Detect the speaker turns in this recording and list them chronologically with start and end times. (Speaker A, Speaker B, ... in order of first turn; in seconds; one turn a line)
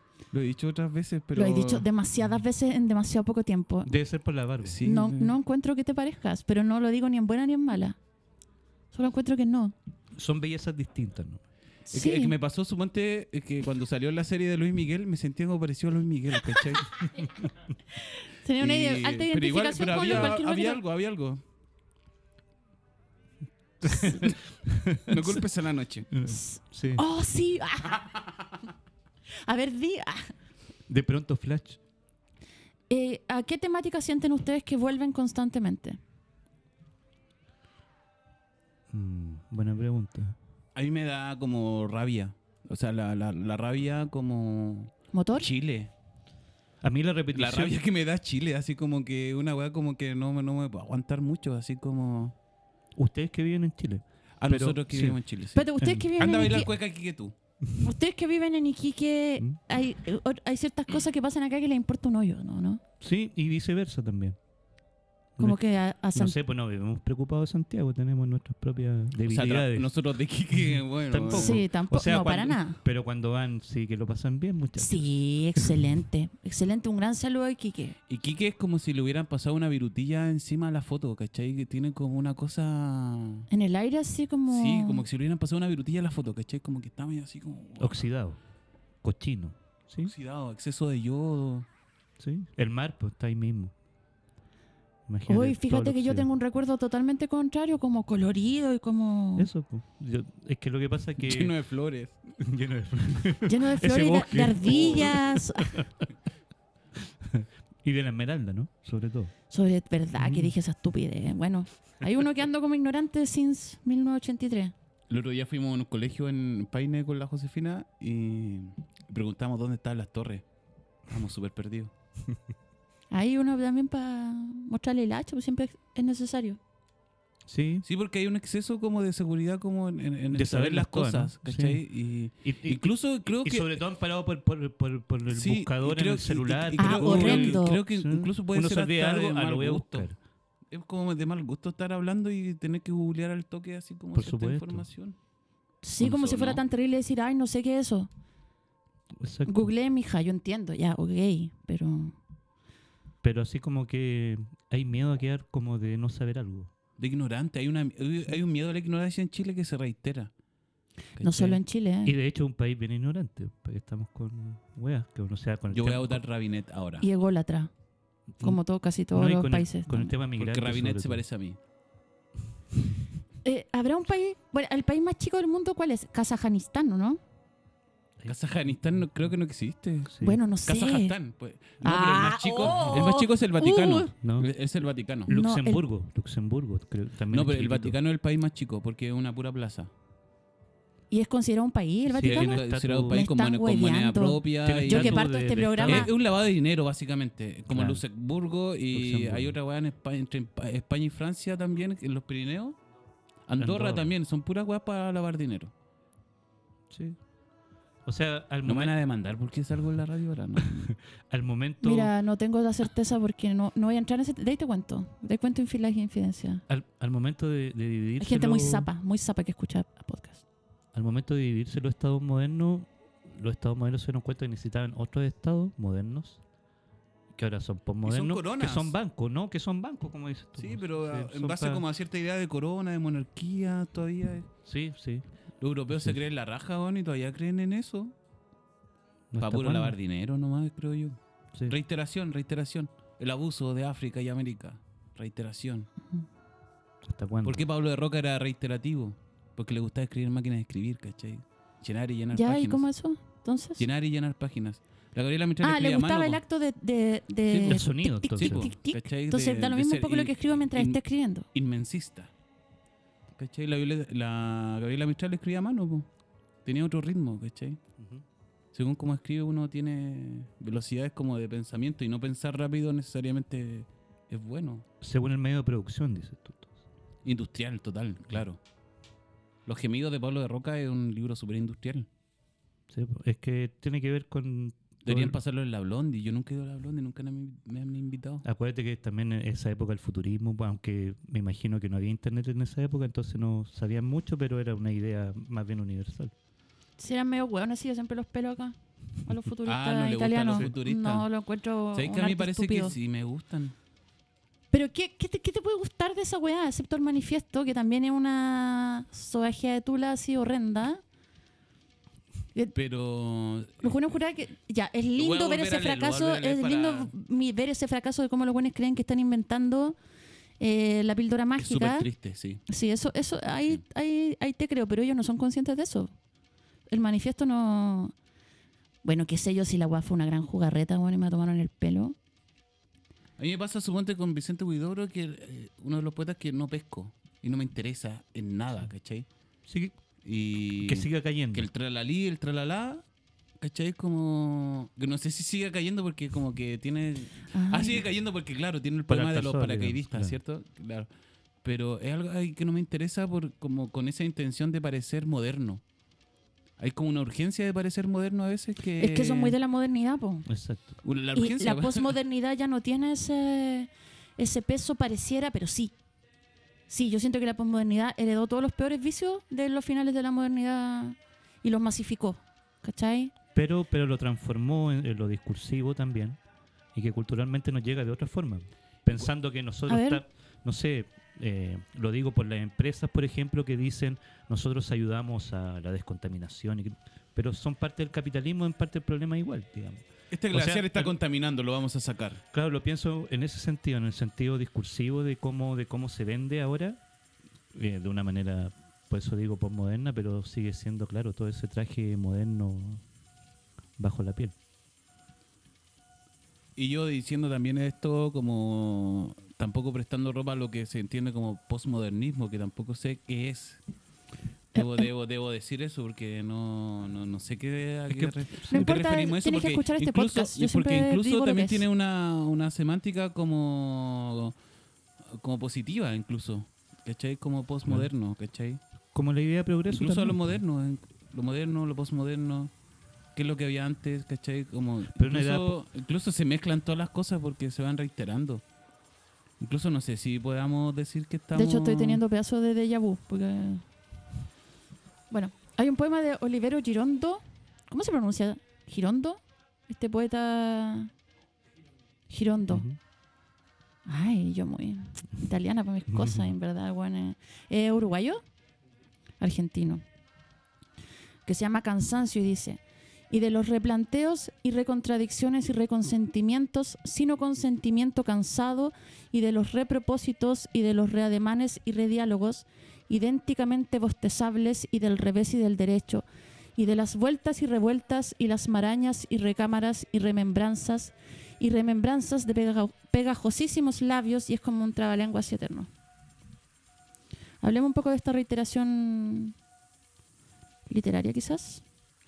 Speaker A: 0.3-1.9
Speaker B: 1.4-3.9
Speaker C: 3.9-4.8
Speaker A: 4.6-5.4
Speaker B: 4.8-8.0
Speaker B: 8.9-9.8
Speaker C: 10.2-11.4
Speaker B: 11.9-12.3
Speaker A: 11.9-17.1
Speaker B: 18.4-20.8
Speaker A: 18.6-21.4
Speaker C: 23.8-25.4
Speaker A: 25.1-26.1
Speaker C: 26.1-27.0
Speaker B: 26.2-28.0
Speaker B: 29.4-30.3
Speaker C: 30.9-31.8
Speaker B: 32.9-36.0
Speaker C: 38.9-40.4
Speaker A: 40.8-45.9
Speaker B: 45.1-45.5
Speaker C: 46.8-47.8
Speaker A: 47.3-52.4
Speaker C: 53.0-55.2
Speaker A: 54.4-57.4
Speaker B: 55.5-56.7
Speaker C: 55.8-56.7
Speaker B: 57.8-62.8
Speaker C: 63.0-64.4
Speaker C: 65.4-69.9
Speaker B: 65.4-66.4
Speaker A: 69.2-71.8
Speaker C: 70.6-75.7
Speaker B: 71.3-72.8
Speaker B: 74.8-78.0
Speaker A: 78.1-83.5
Speaker B: 83.5-85.0
Speaker A: 84.5-88.1
Speaker C: 87.8-88.4
Speaker C: 89.0-90.1
Speaker A: 90.0-91.7
Speaker C: 92.2-93.7
Speaker C: 95.1-96.3
Speaker B: 95.3-99.5
Speaker C: 99.4-101.5
Speaker A: 101.2-102.3
Speaker C: 102.4-106.0
Speaker B: 103.5-105.8
Speaker A: 104.6-105.2
Speaker C: 107.2-109.3
Speaker B: 109.5-114.7
Speaker C: 110.2-110.5
Speaker A: 115.1-120.5
Speaker A: 121.1-121.9
Speaker B: 123.1-126.6
Speaker C: 127.5-127.9
Speaker A: 127.8-133.9
Speaker C: 130.3-140.2
Speaker A: 135.3-140.1
Speaker B: 136.8-137.8
Speaker A: 140.7-145.2
Speaker C: 144.1-144.9
Speaker B: 145.8-148.1
Speaker A: 146.0-146.6
Speaker C: 149.2-149.7
Speaker B: 149.5-152.2
Speaker C: 153.2-156.7
Speaker A: 157.0-160.3
Speaker A: 161.2-161.6
Speaker B: 161.2-162.2
Speaker C: 162.1-166.2
Speaker A: 165.7-167.1
Speaker B: 167.0-167.7
Speaker B: 168.4-170.1
Speaker C: 169.1-171.3
Speaker A: 170.3-171.6
Speaker B: 173.4-177.2
Speaker C: 178.2-179.1
Speaker A: 178.3-185.3
Speaker C: 180.1-180.6
Speaker B: 180.2-181.1
Speaker B: 181.8-184.1
Speaker C: 184.1-184.5
Speaker C: 185.3-188.0
Speaker B: 185.3-185.8
Speaker A: 187.3-189.9
Speaker B: 191.1-196.1
Speaker C: 192.1-193.3
Speaker A: 192.2-202.8
Speaker C: 194.6-196.2
Speaker C: 197.7-198.0
Speaker C: 198.9-199.6
Speaker A: 203.5-205.7
Speaker C: 203.6-204.1
Speaker C: 206.9-207.2
Speaker C: 208.1-209.0
Speaker A: 208.6-210.9
Speaker C: 210.6-212.1
Speaker B: 211.8-216.6
Speaker C: 216.7-218.9
Speaker B: 218.2-220.4
Speaker C: 220.9-226.4
Speaker C: 227.3-231.8
Speaker A: 228.0-229.0
Speaker A: 230.6-234.5
Speaker C: 234.7-235.2
Speaker A: 235.6-238.1
Speaker C: 235.9-236.2
Speaker C: 239.3-240.0
Speaker A: 239.4-245.9
Speaker C: 247.0-247.7
Speaker A: 247.4-252.9
Speaker B: 252.3-253.8
Speaker A: 253.8-256.4
Speaker B: 255.6-261.5
Speaker A: 257.5-261.0
Speaker C: 257.7-258.8
Speaker A: 261.5-262.3
Speaker A: 263.4-266.1
Speaker A: 266.6-267.8
Speaker A: 268.7-274.9
Speaker C: 275.0-276.7
Speaker A: 277.2-278.6
Speaker A: 279.7-282.1
Speaker C: 282.9-285.4
Speaker A: 285.0-288.4
Speaker C: 288.4-296.3
Speaker B: 297.0-302.9
Speaker A: 299.6-301.3
Speaker A: 301.9-303.8
Speaker B: 304.7-311.0
Speaker A: 312.7-314.0
Speaker B: 313.8-320.0
Speaker A: 315.2-317.1
Speaker B: 320.6-322.1
Speaker A: 321.6-322.6
Speaker B: 322.7-326.1
Speaker B: 326.9-328.1
Speaker B: 329.0-332.2
Speaker A: 333.4-339.3
Speaker C: 339.7-340.0
Speaker A: 340.2-343.1
Speaker C: 340.9-341.7
Speaker A: 343.6-351.1
Speaker B: 347.5-348.0
Speaker C: 349.1-350.4
Speaker A: 351.6-355.8
Speaker A: 356.8-359.6
Speaker B: 359.0-360.5
Speaker C: 360.5-361.0
Speaker A: 361.0-362.1
Speaker B: 361.3-365.9
Speaker B: 366.9-373.3
Speaker C: 373.6-376.4
Speaker C: 376.9-391.1
Speaker B: 379.9-380.2
Speaker A: 390.3-392.4
Speaker C: 392.5-397.0
Speaker C: 397.7-403.0
Speaker C: 404.0-404.6
Speaker A: 406.8-413.8
Speaker A: 414.7-424.6
Speaker C: 418.1-419.0
Speaker B: 418.7-421.8
Speaker A: 425.3-428.8
Speaker C: 429.1-430.6
Speaker A: 429.9-432.7
Speaker A: 433.4-438.6
Speaker C: 435.1-435.8
Speaker A: 439.6-442.2
Speaker B: 441.5-443.8
Speaker B: 445.3-451.1
Speaker B: 452.3-452.9
Speaker C: 452.7-453.0
Speaker B: 454.1-458.4
Speaker C: 456.1-456.5
Speaker B: 459.4-460.0
Speaker B: 461.4-476.2
Speaker B: 476.8-485.9
Speaker B: 487.6-489.5
Speaker B: 490.9-491.8